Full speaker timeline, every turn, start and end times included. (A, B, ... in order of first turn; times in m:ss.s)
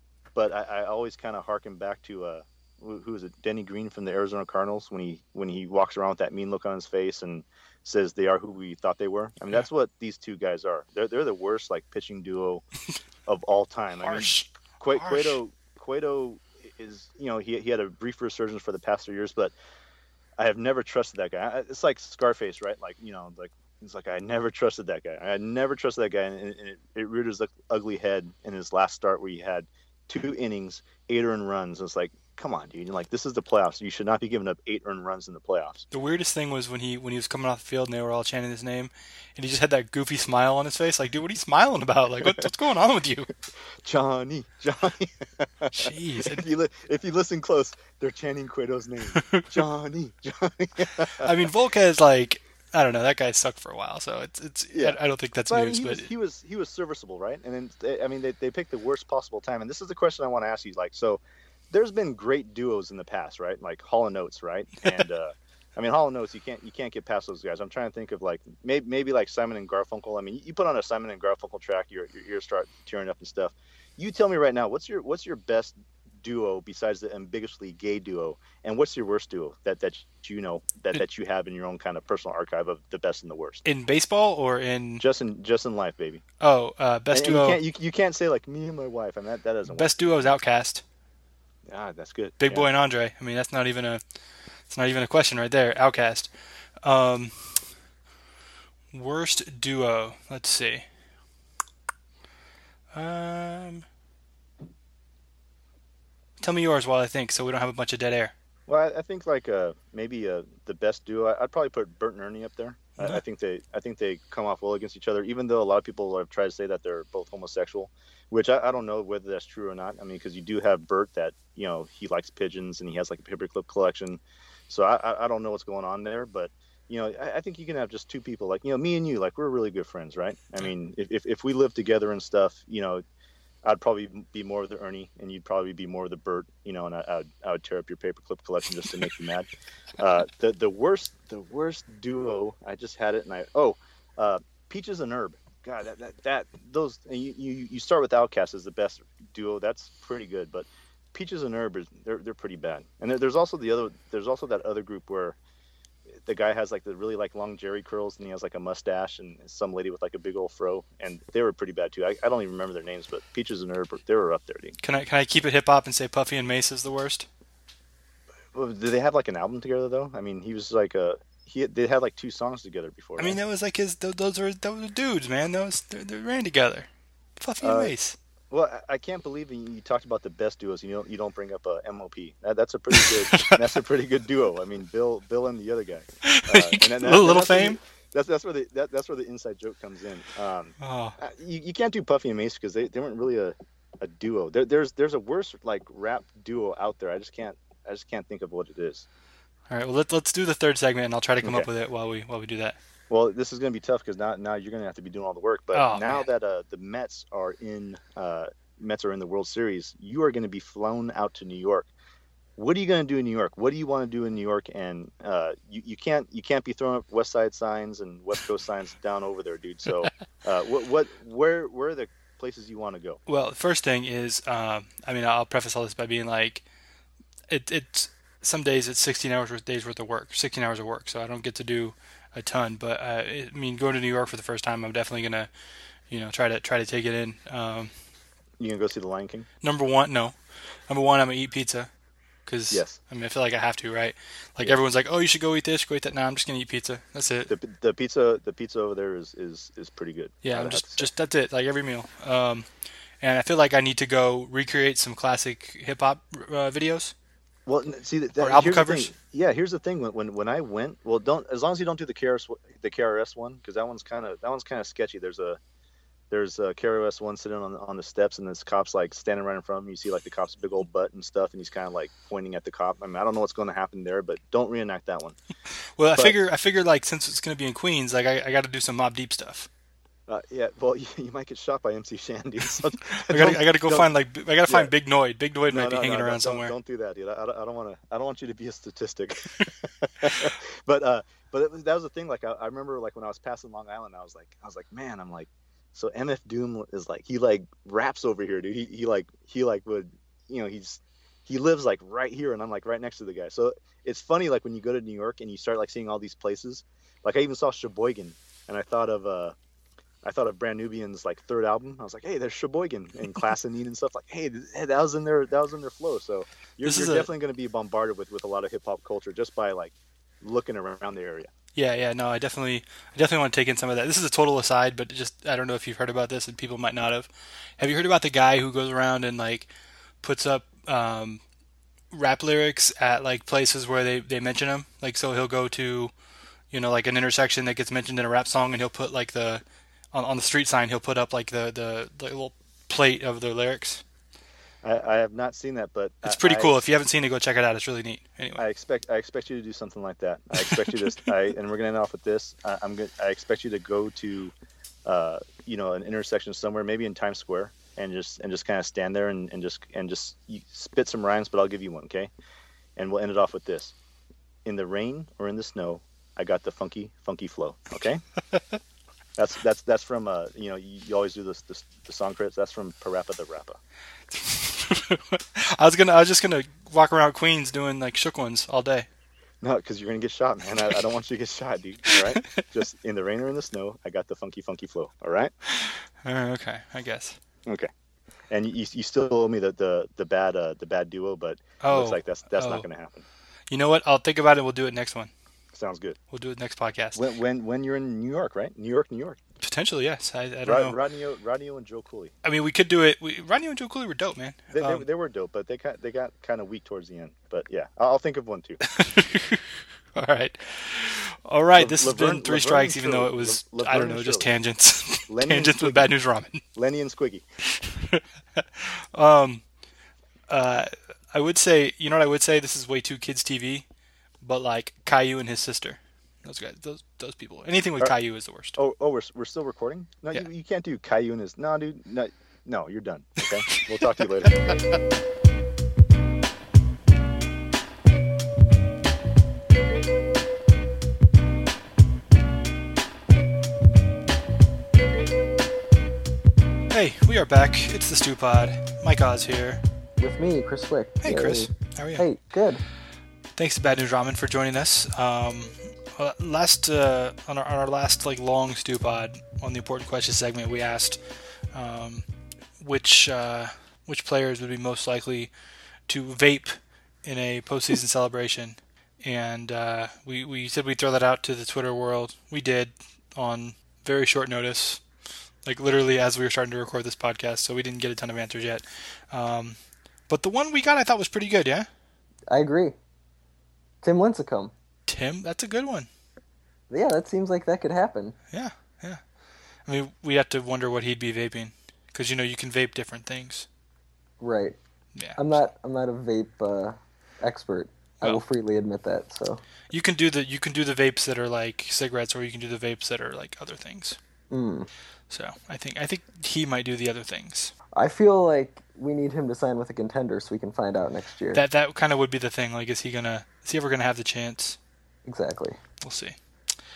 0:00.4-0:12.6 A
0:13.3-0:19.5 A
0:14.0-0:15.4 B
0:20.4-0:35.9 A
0:35.9-0:43.3 B
0:43.8-0:51.3 A
0:45.7-0:46.5 B
0:49.2-0:49.5 B
0:51.2-0:56.1 B
0:54.7-1:23.6 A
1:23.6-1:25.0 B
1:25.0-1:26.2 A
1:26.4-1:27.6 B
1:27.1-1:30.3 A
1:29.7-1:30.8 B
1:31.7-1:32.7 A
1:32.4-1:34.0 B
1:34.7-1:36.3 B
1:36.8-1:37.5 B
1:38.9-1:40.9 B
1:42.9-1:43.8 B
1:46.4-1:48.3 B
1:48.7-2:13.0 A
2:13.6-2:35.4 A
2:36.3-2:44.8 A
2:44.8-2:47.3 B
2:48.5-2:53.4 A
2:53.2-2:56.9 B
2:57.4-2:58.2 B
2:57.6-2:57.9 A
2:58.5-3:19.1 A
3:02.9-3:03.7 B
3:06.2-3:07.8 B
3:10.8-3:11.2 B
3:19.7-3:22.8 B
3:21.4-3:21.7 A
3:23.1-3:31.9 A
3:25.7-3:26.2 B
3:32.6-3:43.2 A
3:43.3-3:46.6 B
3:47.5-3:55.5 B
3:56.1-3:57.9 B
3:58.6-3:59.5 A
3:59.6-4:00.4 B
4:00.9-4:01.9 B
4:02.5-4:07.5 B
4:02.7-4:03.0 A
4:07.5-4:11.1 A
4:10.4-4:12.7 B
4:13.2-4:17.2 B
4:17.7-4:25.6 A
4:18.4-4:19.1 B
4:26.3-4:35.4 A
4:36.0-4:39.7 B
4:40.3-4:44.1 A
4:43.1-4:46.7 B
4:45.7-5:09.6 A
4:50.2-4:50.5 B
5:10.2-5:21.5 A
5:16.8-5:17.3 B
5:21.8-5:29.7 B
5:30.2-5:31.4 B
5:32.1-5:36.1 B
5:36.7-5:44.0 B
5:44.8-5:46.8 A
5:46.2-5:48.6 B
5:48.6-5:54.5 A
5:50.5-5:51.0 B
5:55.1-6:02.3 A
6:03.0-6:04.0 A
6:04.6-6:08.2 A
6:08.5-6:08.8 B
6:09.4-6:13.8 A
6:14.3-6:19.1 B
6:19.6-6:25.5 A
6:22.1-6:22.7 B
6:25.7-6:27.4 B
6:28.5-6:33.2 A
6:31.8-6:32.8 B
6:33.7-6:35.3 B
6:35.7-6:36.2 A
6:36.3-6:37.2 B
6:37.2-6:39.4 A
6:39.6-6:41.0 B
6:40.7-6:42.3 A
6:42.4-6:45.1 B
6:44.7-6:48.8 A
6:48.8-6:56.6 B
6:51.8-6:54.5 A
6:55.3-6:56.1 A
6:56.8-6:57.4 A
6:57.7-6:59.6 B
7:00.5-7:03.9 B
7:04.4-7:08.8 B
7:08.8-7:14.7 A
7:13.4-7:14.8 B
7:26.9-7:29.8 B
7:30.2-7:32.8 C
7:31.2-7:32.3 B
7:33.6-7:41.2 B
7:41.7-7:42.3 B
7:42.8-7:45.5 B
7:46.1-7:55.0 B
7:55.6-7:59.8 B
8:00.3-8:01.9 B
8:02.5-8:03.0 C
8:04.0-8:04.7 C
8:05.1-8:06.1 B
8:06.9-8:08.4 C
8:08.5-8:09.2 B
8:09.9-8:13.7 B
8:14.4-8:14.8 C
8:15.2-8:15.7 B
8:15.4-8:19.6 C
8:19.9-8:24.2 B
8:24.5-8:24.9 C
8:25.3-8:27.7 B
8:28.0-8:31.6 C
8:31.5-8:34.8 B
8:35.2-8:35.8 C
8:36.0-8:36.4 B